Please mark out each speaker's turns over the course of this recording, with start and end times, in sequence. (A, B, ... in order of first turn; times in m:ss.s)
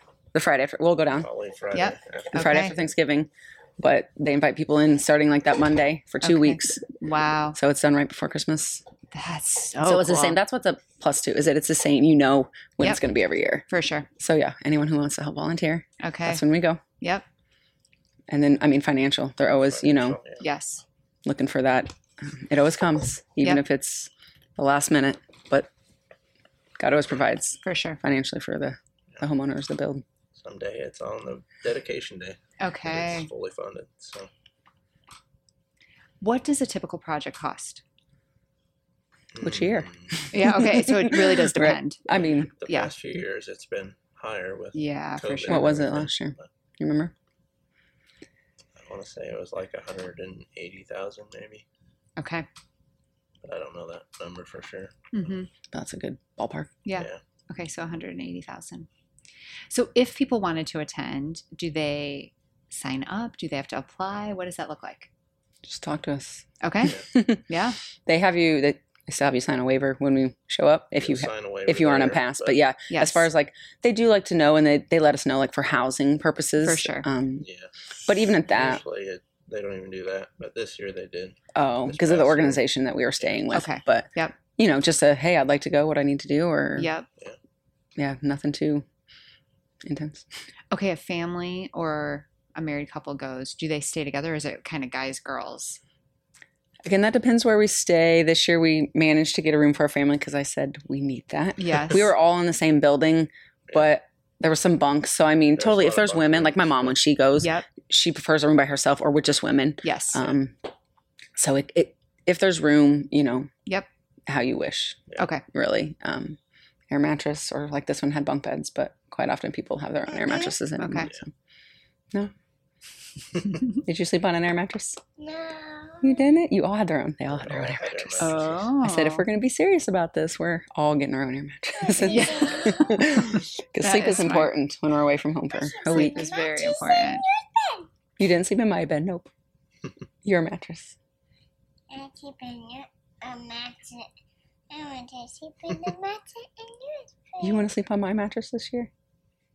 0:00.3-0:01.3 A
0:01.2-0:02.7 B
0:01.7-0:02.8 C
0:02.3-0:06.8 A
0:06.2-0:07.6 C
0:07.5-0:08.8 A
0:09.1-0:10.4 C
0:09.8-0:13.6 A
0:13.7-0:14.1 C
0:14.2-0:16.8 A
0:16.0-0:16.4 C
0:17.0-0:17.2 C
0:18.3-0:20.2 A
0:19.6-0:20.5 B
0:20.4-0:20.8 C
0:21.2-0:25.7 A
0:26.8-0:30.0 A
0:27.6-0:28.0 C
0:30.4-0:34.3 B
0:32.6-0:33.3 C
0:36.2-0:37.8 C
0:39.3-0:40.3 B
0:39.4-0:42.5 A
0:40.3-0:42.1 C
0:42.6-0:46.5 B
0:42.6-0:42.9 C
0:44.7-0:45.7 C
0:45.5-0:47.1 A
0:48.8-0:51.6 B
0:52.2-0:52.5 C
0:53.4-0:55.3 B
0:55.1-0:55.5 C
0:55.7-0:56.8 A
0:56.8-0:58.9 C
0:56.9-0:57.2 B
0:59.7-1:05.1 C
1:05.6-1:07.4 A
1:06.6-1:07.8 C
1:08.0-1:17.5 A
1:11.0-1:12.6 B
1:12.9-1:13.3 C
1:16.6-1:17.1 C
1:17.4-1:17.7 B
1:18.1-1:18.8 A
1:18.4-1:22.6 B
1:21.5-1:26.9 A
1:23.5-1:24.4 C
1:26.8-1:27.1 C
1:28.0-1:28.8 A
1:29.8-1:30.3 A
1:30.7-1:35.8 C
1:36.8-1:50.5 A
1:41.6-1:42.1 C
1:45.6-1:47.0 B
1:47.4-1:47.6 C
1:49.8-1:50.2 C
1:51.4-1:53.5 A
1:54.3-1:56.4 A
1:55.2-1:55.4 C
1:56.9-2:01.3 A
2:00.8-2:01.1 C
2:03.8-2:05.0 A
2:05.2-2:06.2 D
2:06.0-2:16.2 A
2:07.3-2:08.7 B
2:08.2-2:09.2 C
2:11.8-2:13.1 D
2:12.0-2:13.2 C
2:13.8-2:14.5 C
2:15.5-2:17.9 D
2:15.9-2:17.2 C
2:18.2-2:19.3 A
2:20.2-2:21.0 A
2:21.9-2:24.1 D
2:24.7-2:27.7 D
2:27.4-2:28.9 A